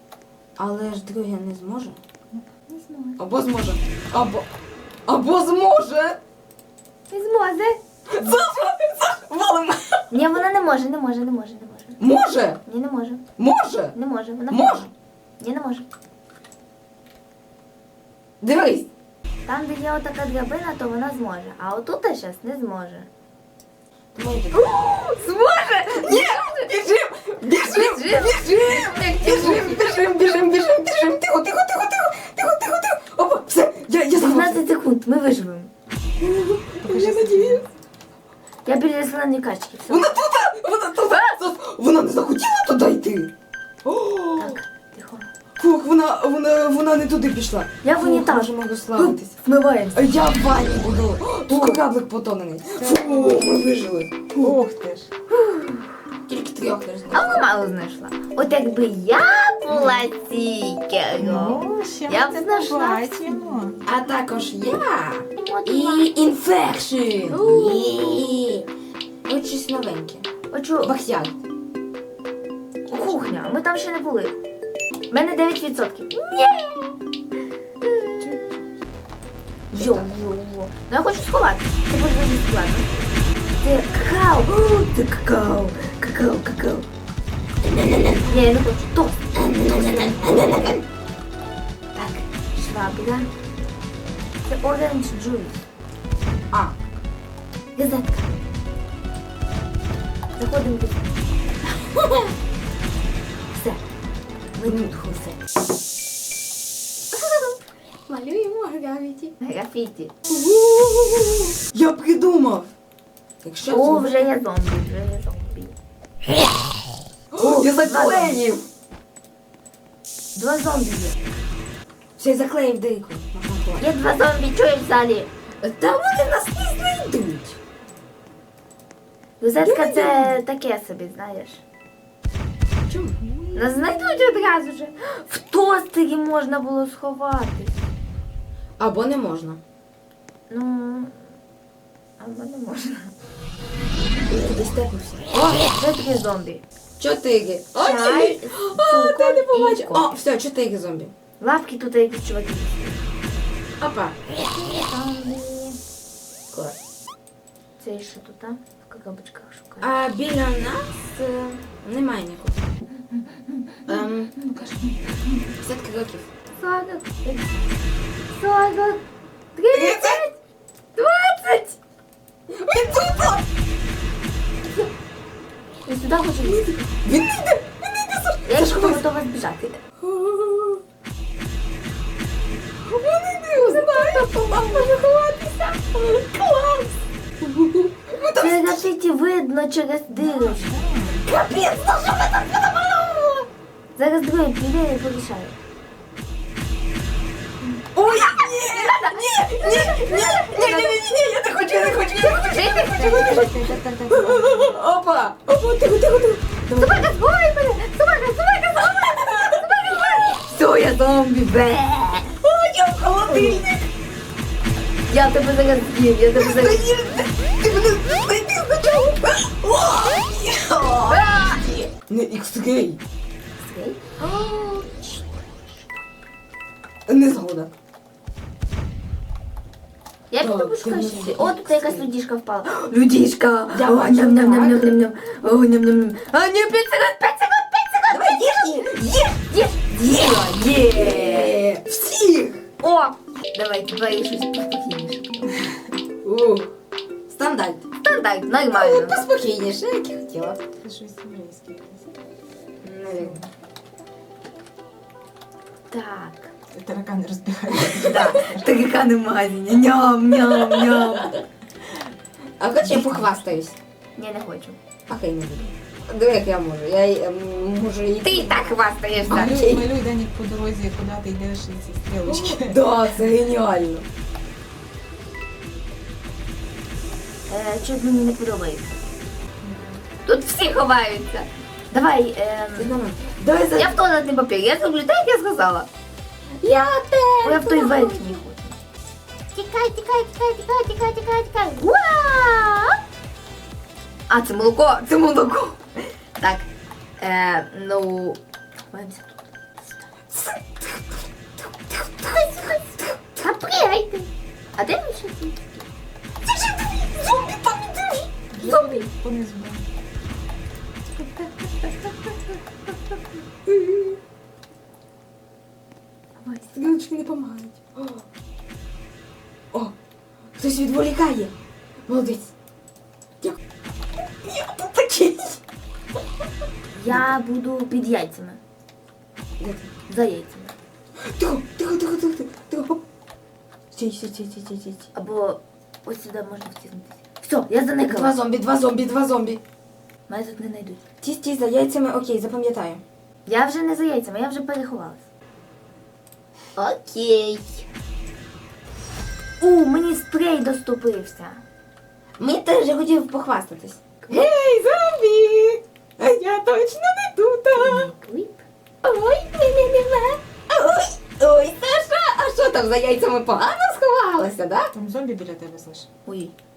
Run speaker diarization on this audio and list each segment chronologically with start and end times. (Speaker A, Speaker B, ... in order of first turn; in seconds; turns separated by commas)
Speaker A: 0.6-2.0, Speaker B: 2.7-3.2, Speaker A: 3.2-4.5, Speaker A: 5.1-6.2, Speaker B: 7.1-7.8, Speaker A: 8.1-10.0, Speaker B: 10.1-12.0, Speaker A: 12.0-12.6, Speaker B: 12.7-13.2, Speaker A: 13.4-13.9, Speaker B: 13.9-15.8, Speaker A: 14.5-14.9, Speaker A: 18.4-18.9, Speaker B: 19.4-23.1, Speaker A: 24.1-24.9, Speaker B: 24.5-26.8, Speaker A: 26.0-34.6, Speaker B: 27.4-29.8, Speaker C: 29.4-29.8, Speaker B: 34.1-35.7, Speaker A: 36.2-37.6, Speaker C: 36.8-37.7, Speaker B: 38.6-40.1, Speaker A: 39.9-43.3, Speaker B: 41.1-41.3, Speaker A: 43.8-44.6, Speaker B: 44.4-45.3, Speaker A: 45.6-49.3, Speaker B: 47.8-50.0, Speaker A: 49.9-54.5, Speaker B: 51.5-51.8, Speaker C: 52.8-53.5, Speaker C: 54.4-55.1, Speaker B: 55.3-55.8, Speaker A: 56.2-57.4, Speaker B: 57.1-63.3, Speaker A: 59.7-60.1, Speaker C: 61.1-63.8, Speaker A: 63.8-68.7, Speaker B: 65.4-66.1, Speaker B: 67.3-68.3, Speaker A: 69.2-70.3, Speaker B: 70.5-70.9, Speaker A: 70.8-71.4, Speaker B: 72.9-74.4, Speaker B: 75.1-77.0, Speaker B: 77.8-78.4, Speaker B: 79.7-83.0, Speaker A: 79.7-80.1, Speaker B: 83.6-86.8, Speaker A: 87.6-88.3, Speaker B: 88.2-90.7, Speaker A: 89.3-90.8, Speaker B: 91.9-93.3, Speaker B: 94.4-95.7, Speaker B: 97.8-98.4, Speaker B: 100.3-101.1, Speaker B: 103.5-103.8, Speaker B: 104.6-105.4, Speaker A: 104.7-104.9, Speaker A: 107.1-107.5, Speaker A: 108.1-109.3, Speaker B: 109.4-110.1, Speaker A: 110.3-112.7, Speaker A: 113.4-114.3, Speaker B: 113.7-115.7, Speaker A: 117.3-118.7, Speaker B: 117.4-118.5, Speaker B: 120.3-121.2, Speaker A: 122.2-123.8, Speaker B: 123.8-125.3, Speaker A: 125.6-127.6, Speaker B: 129.4-131.6, Speaker A: 129.6-130.4, Speaker A: 132.9-133.2, Speaker C: 133.4-134.3, Speaker B: 133.5-137.7, Speaker A: 138.8-139.6, Speaker B: 140.5-141.1, Speaker B: 142.2-143.1, Speaker A: 144.3-145.7, Speaker B: 145.3-146.6, Speaker A: 147.0-151.1, Speaker B: 147.7-150.1, Speaker B: 151.4-153.0, Speaker A: 153.8-154.3, Speaker B: 154.3-155.8, Speaker B: 157.8-160.0, Speaker A: 159.8-162.7, Speaker B: 163.1-165.2, Speaker A: 163.9-164.3, Speaker A: 165.5-166.3, Speaker B: 166.5-167.7, Speaker B: 168.3-169.0, Speaker B: 169.5-170.4, Speaker A: 169.7-170.2, Speaker B: 170.9-171.8, Speaker A: 172.6-173.4, Speaker B: 174.6-174.9, Speaker B: 175.8-176.7, Speaker A: 176.4-179.0, Speaker B: 178.5-179.8, Speaker A: 180.0-180.8, Speaker A: 182.9-185.1, Speaker C: 183.5-185.4, Speaker B: 183.7-184.9, Speaker A: 185.8-188.9, Speaker B: 188.3-190.9, Speaker C: 190.2-191.2, Speaker A: 191.2-193.5, Speaker B: 194.0-195.6, Speaker B: 197.6-203.7, Speaker A: 197.9-207.1, Speaker C: 202.7-204.8, Speaker B: 206.8-212.4, Speaker A: 209.2-209.6, Speaker A: 212.4-213.9, Speaker B: 213.2-213.7, Speaker B: 215.1-216.9, Speaker A: 216.3-223.0, Speaker B: 221.1-221.9, Speaker B: 223.6-226.0, Speaker A: 227.1-227.7, Speaker B: 230.3-238.8, Speaker A: 230.4-232.1, Speaker A: 233.7-235.0, Speaker A: 238.1-239.7, Speaker B: 239.4-241.6, Speaker A: 240.9-242.7, Speaker B: 242.8-245.6, Speaker A: 246.2-246.7, Speaker A: 247.3-247.9, Speaker B: 248.0-249.2, Speaker A: 248.7-250.6, Speaker C: 250.8-252.1, Speaker A: 252.8-253.4, Speaker C: 253.2-253.4, Speaker B: 255.9-256.5, Speaker C: 256.7-258.8, Speaker B: 257.9-261.4, Speaker A: 260.8-261.1, Speaker A: 262.6-263.8, Speaker C: 262.9-263.4, Speaker B: 264.1-264.8, Speaker A: 265.1-269.9, Speaker B: 268.2-269.9, Speaker C: 269.2-273.0, Speaker A: 272.3-274.1, Speaker B: 277.5-278.9, Speaker C: 279.6-280.0, Speaker B: 280.2-282.9, Speaker A: 282.7-284.0, Speaker B: 283.8-285.9, Speaker A: 286.6-288.4, Speaker B: 287.4-288.8, Speaker D: 289.5-291.8, Speaker B: 291.7-292.9, Speaker B: 294.3-295.8, Speaker B: 296.4-296.7, Speaker B: 297.2-298.4, Speaker B: 298.9-299.7, Speaker A: 300.3-301.0, Speaker A: 301.6-303.1, Speaker B: 303.4-305.9, Speaker A: 306.4-308.4, Speaker C: 308.5-309.9, Speaker B: 308.6-309.1, Speaker A: 313.7-314.0, Speaker B: 316.4-316.7, Speaker A: 316.7-318.2, Speaker A: 320.6-321.5, Speaker A: 322.1-322.5, Speaker A: 324.4-325.6, Speaker B: 326.9-328.6, Speaker A: 327.1-327.4, Speaker A: 329.6-329.9, Speaker B: 330.1-330.7, Speaker A: 331.3-333.0, Speaker A: 333.9-335.1, Speaker B: 335.1-338.4, Speaker A: 338.1-339.6, Speaker B: 340.3-341.0, Speaker A: 341.2-343.0, Speaker B: 343.4-345.2, Speaker B: 346.8-347.6, Speaker A: 346.8-347.6, Speaker B: 349.6-351.6, Speaker A: 352.4-358.1, Speaker B: 357.7-358.6, Speaker A: 359.0-364.9, Speaker C: 364.9-366.1, Speaker B: 366.2-366.5